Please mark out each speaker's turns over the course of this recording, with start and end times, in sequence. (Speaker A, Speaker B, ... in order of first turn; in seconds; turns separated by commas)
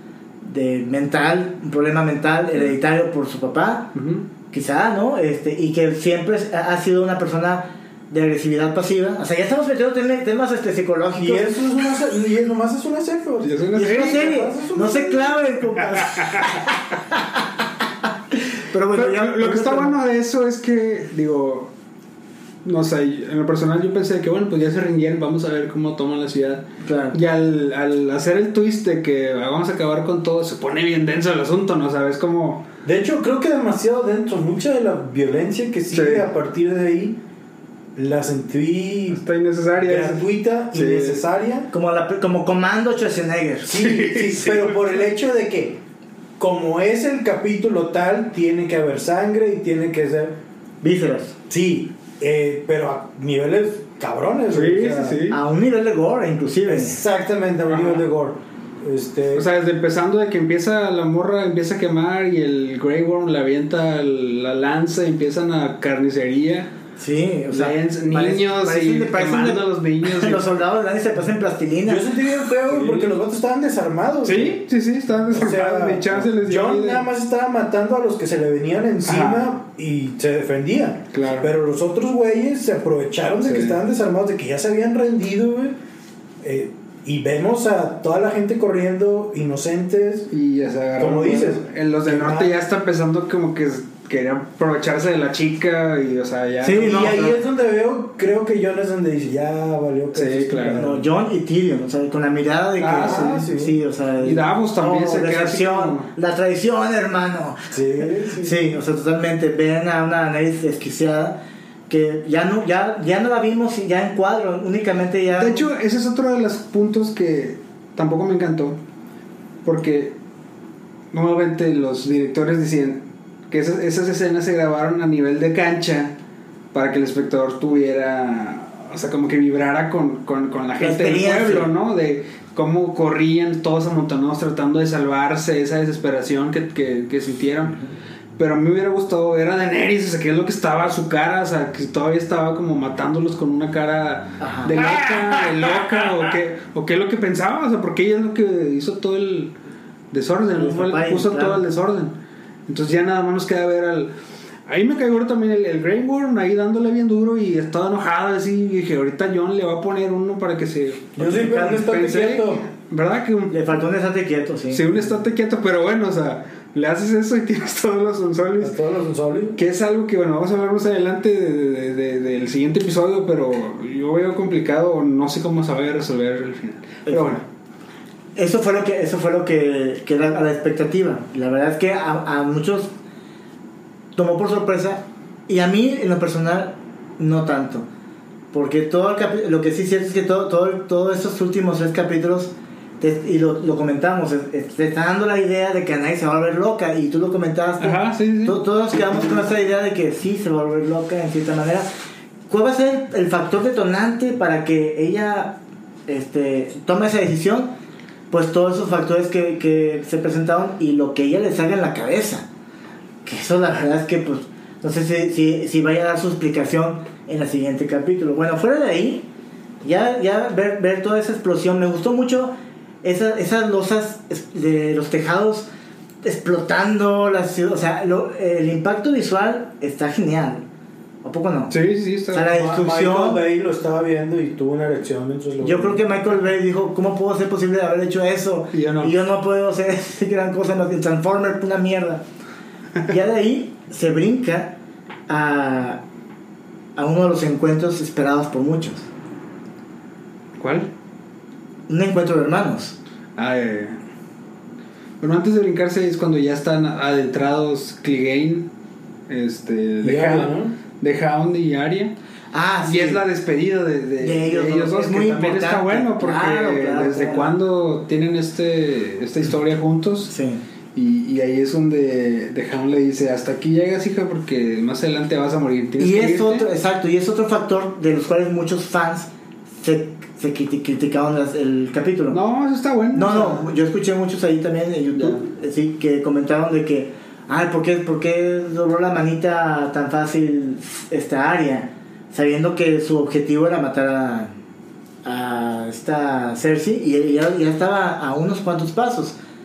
Speaker A: 0.4-3.9, Speaker B: 3.9-4.2, Speaker A: 4.5-11.5, Speaker C: 11.2-15.5, Speaker B: 13.4-14.3, Speaker A: 13.7-17.5, Speaker B: 16.0-16.5, Speaker A: 18.1-19.9, Speaker B: 18.9-21.7, Speaker B: 22.6-32.7, Speaker A: 26.8-27.2, Speaker C: 32.8-37.2, Speaker B: 35.9-36.3, Speaker C: 38.0-39.2, Speaker B: 39.1-41.2, Speaker C: 39.8-41.7, Speaker A: 41.7-43.8, Speaker C: 43.6-45.8, Speaker B: 43.7-45.0, Speaker C: 46.4-50.4, Speaker A: 50.8-51.4, Speaker C: 51.5-55.2, Speaker B: 54.5-55.4, Speaker A: 55.3-57.0, Speaker C: 56.6-59.5, Speaker B: 57.7-58.0, Speaker B: 59.3-66.7, Speaker A: 67.0-72.2, Speaker B: 67.5-70.5, Speaker C: 71.8-74.6, Speaker B: 72.7-73.1, Speaker B: 74.2-77.0, Speaker C: 75.3-85.8, Speaker B: 79.0-79.5, Speaker B: 81.1-81.5, Speaker B: 83.4-83.8, Speaker C: 86.4-90.3, Speaker B: 90.3-97.2, Speaker C: 91.0-92.5, Speaker A: 96.6-97.4, Speaker C: 96.7-101.1, Speaker B: 100.1-100.9, Speaker A: 100.8-107.8, Speaker B: 102.8-103.4, Speaker C: 103.0-103.8, Speaker B: 104.2-106.1, Speaker C: 107.7-108.7, Speaker A: 108.4-111.4, Speaker A: 111.9-115.7, Speaker B: 115.3-118.8, Speaker B: 119.6-120.2, Speaker B: 121.1-126.1, Speaker B: 126.7-137.8, Speaker A: 130.8-131.7, Speaker B: 138.4-149.5, Speaker A: 144.4-144.8, Speaker B: 150.1-154.1, Speaker A: 150.6-151.7, Speaker B: 154.7-163.7, Speaker C: 161.2-162.6, Speaker A: 161.2-161.8, Speaker A: 163.5-165.0, Speaker B: 164.7-168.7, Speaker C: 168.6-169.6, Speaker B: 169.6-177.4, Speaker A: 177.1-177.4, Speaker A: 178.3-182.9, Speaker A: 184.1-187.8, Speaker A: 188.5-201.9, Speaker B: 197.8-198.6, Speaker A: 202.5-207.7, Speaker A: 208.3-212.4, Speaker A: 213.2-219.3, Speaker A: 219.8-225.7, Speaker A: 226.2-230.6, Speaker A: 231.2-231.7, Speaker B: 231.7-232.5, Speaker A: 232.3-233.4, Speaker C: 232.5-236.0, Speaker A: 235.6-242.2, Speaker B: 238.7-239.1, Speaker A: 243.1-244.8, Speaker A: 245.3-246.0, Speaker A: 246.9-249.1, Speaker B: 250.6-250.9, Speaker A: 251.9-253.0, Speaker B: 253.3-254.0, Speaker B: 255.2-258.7, Speaker B: 259.3-262.1, Speaker C: 260.0-260.7, Speaker A: 262.5-263.2, Speaker B: 262.8-270.3, Speaker A: 264.2-267.5, Speaker A: 270.3-270.6, Speaker B: 270.9-276.7, Speaker A: 276.0-279.3, Speaker A: 279.8-282.4, Speaker B: 282.3-283.7, Speaker A: 283.1-294.5, Speaker A: 295.2-299.4